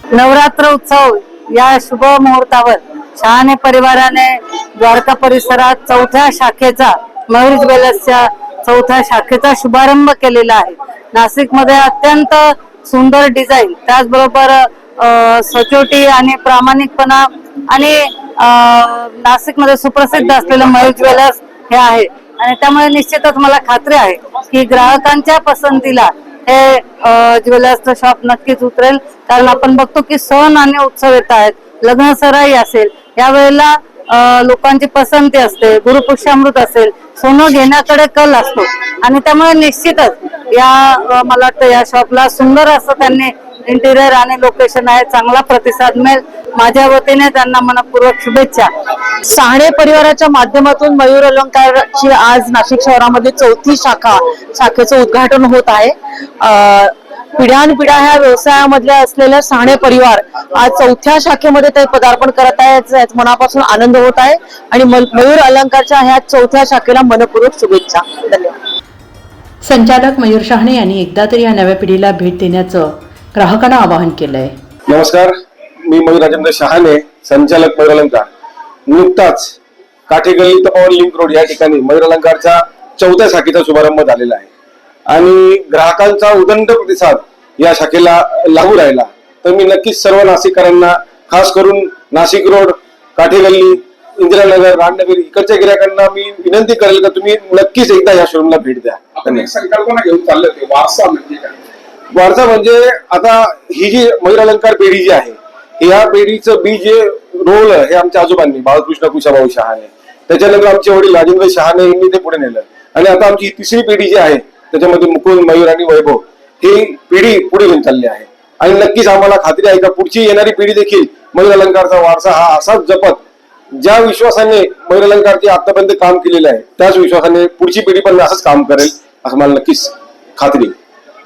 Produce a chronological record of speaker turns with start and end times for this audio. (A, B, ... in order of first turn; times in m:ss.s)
0:00.1-0:48.7 A
0:49.2-1:08.6 B
1:09.6-1:14.5 C
1:14.9-1:15.3 D
1:15.8-1:18.3 D
1:18.9-1:19.5 D
1:20.1-1:24.5 D
1:25.1-1:39.5 D
1:39.2-1:41.6 E
1:42.1-2:03.2 D
2:03.8-2:10.7 D